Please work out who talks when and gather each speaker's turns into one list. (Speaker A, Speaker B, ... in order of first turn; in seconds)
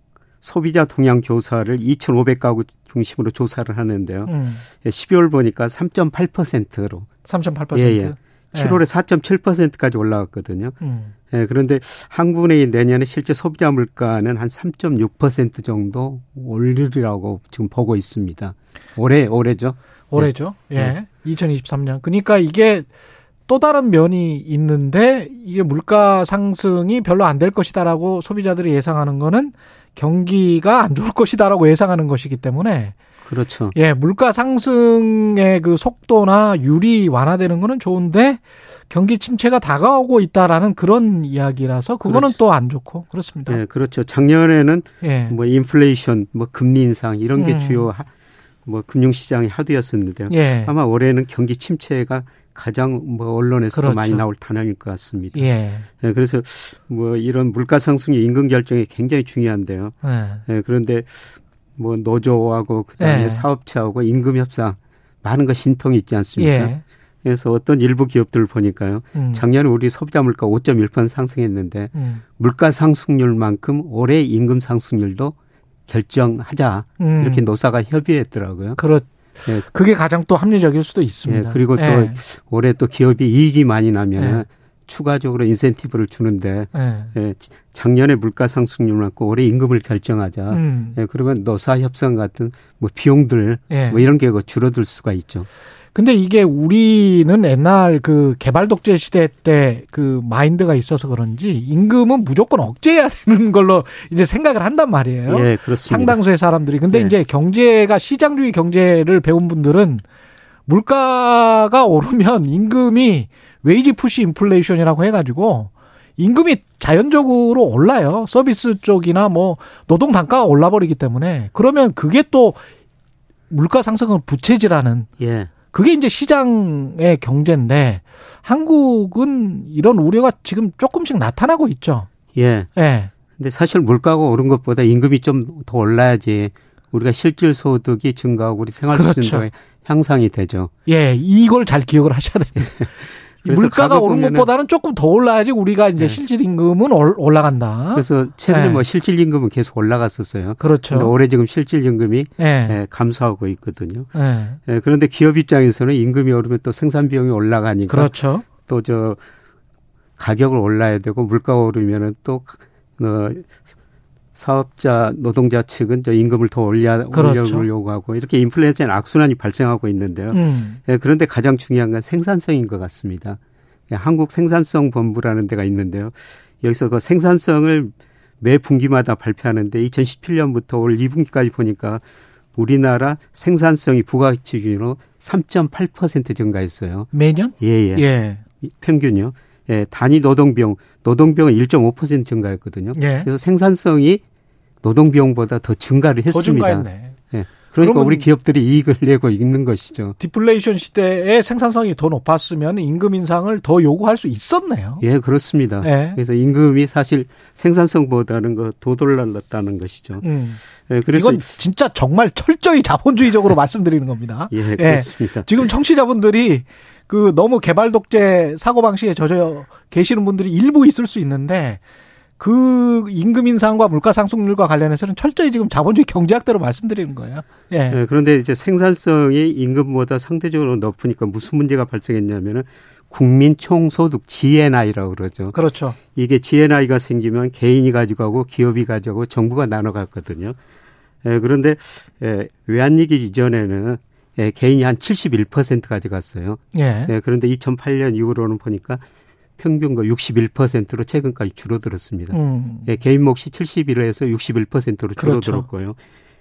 Speaker A: 0.4-7.1, 7.7-10.8, 11.3-20.9, 33.2-33.8, 42.0-42.3, 43.5-48.1, 48.6-66.7, 67.2-75.3, 75.9-78.8, 81.3-95.5, 105.3-106.2, 125.2-125.5, 132.3-132.7, 133.4-140.7, 143.4-144.5, 147.9-154.1, 154.7-159.2, 160.2-163.5, 164.3-173.4, 173.9-182.0, 182.6-188.0, 188.6-194.2, 194.8-200.2, 205.0-210.2, 210.9-211.4, 214.5-215.7, 227.9-235.6, 236.1-240.6, 241.2-249.0, 249.6-256.0
Speaker B: 4.2-4.6, 7.2-8.8, 10.8-11.1, 20.1-22.9, 23.5-32.9, 33.7-43.6, 45.0-45.4, 47.4-47.9, 50.3-50.7, 53.7-54.2, 55.3-55.9, 60.0-60.4, 63.0-63.4, 66.4-66.8, 69.1-69.4, 71.9-72.2, 77.0-77.5, 78.8-82.2, 84.2-84.4, 86.7-87.1, 90.5-91.0, 93.7-94.0, 95.9-110.0, 110.7-122.6, 123.5-125.1, 125.7-132.1, 132.8-133.1, 138.9-139.4, 140.8-148.8, 150.6-151.1, 152.4-152.8, 154.1-154.6, 157.9-158.4, 167.1-167.7, 170.3-170.8, 187.1-188.4, 192.9-193.3, 196.3-197.2, 197.8-198.3, 200.2-205.0, 205.8-206.2, 210.2-221.8, 222.4-228.0, 235.5-236.0, 246.7-247.1, 252.3-252.9, 255.2-255.7